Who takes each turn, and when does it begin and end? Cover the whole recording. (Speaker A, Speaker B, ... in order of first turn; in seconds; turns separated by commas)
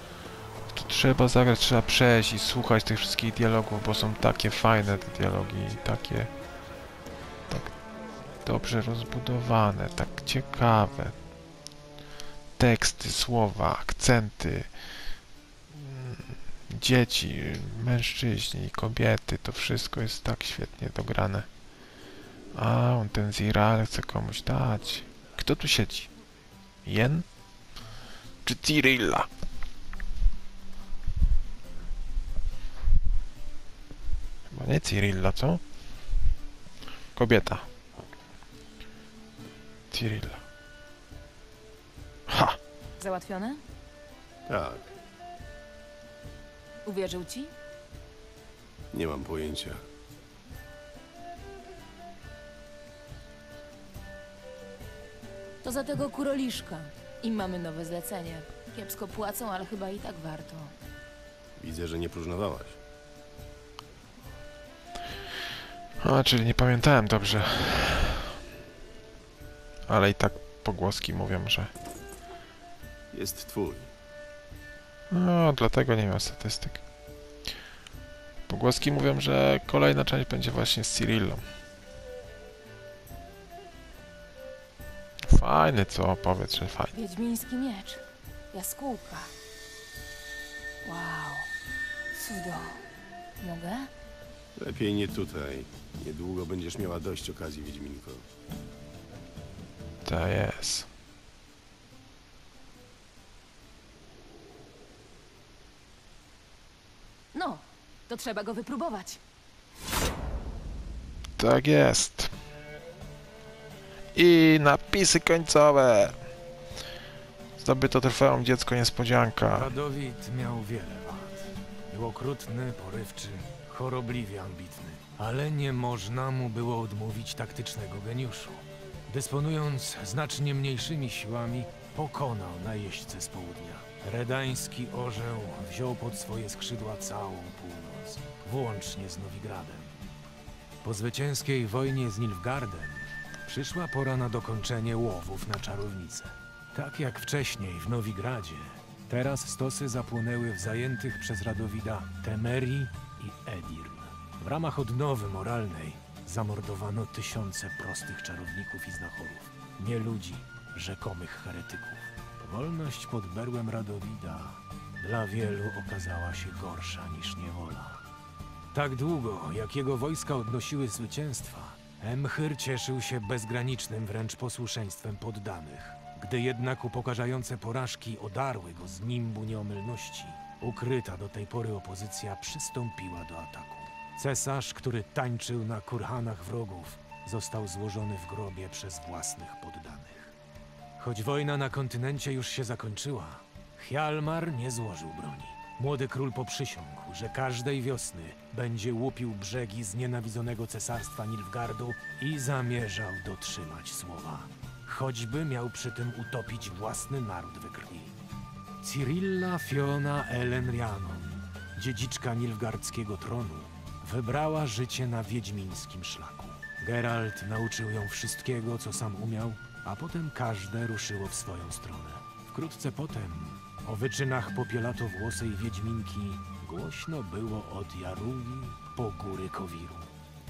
Speaker A: 0.7-6.3, Speaker A: 8.4-11.2, Speaker A: 12.6-14.7, Speaker A: 15.7-21.5, Speaker A: 22.5-26.1, Speaker A: 26.9-27.3, Speaker A: 28.4-29.3, Speaker A: 34.5-35.6, Speaker A: 37.2-37.7, Speaker A: 39.9-40.4, Speaker A: 42.3-42.6, Speaker B: 43.0-43.6, Speaker C: 44.5-44.9, Speaker B: 46.9-47.5, Speaker C: 48.9-49.8, Speaker B: 55.6-60.7, Speaker C: 61.6-62.8, Speaker A: 66.0-68.3, Speaker A: 69.9-71.7, Speaker C: 73.1-73.9, Speaker A: 75.1-76.8, Speaker A: 78.5-81.4, Speaker A: 85.3-86.9, Speaker B: 86.9-89.3, Speaker B: 90.8-91.5, Speaker B: 92.1-92.8, Speaker B: 93.4-93.9, Speaker C: 94.6-98.2, Speaker A: 100.0-100.9, Speaker B: 107.3-109.2, Speaker A: 111.4-112.3, Speaker A: 114.2-116.2, Speaker A: 117.6-119.7, Speaker D: 119.5-139.9, Speaker D: 140.8-168.0, Speaker D: 168.7-190.3, Speaker D: 191.0-208.1, Speaker D: 208.8-230.1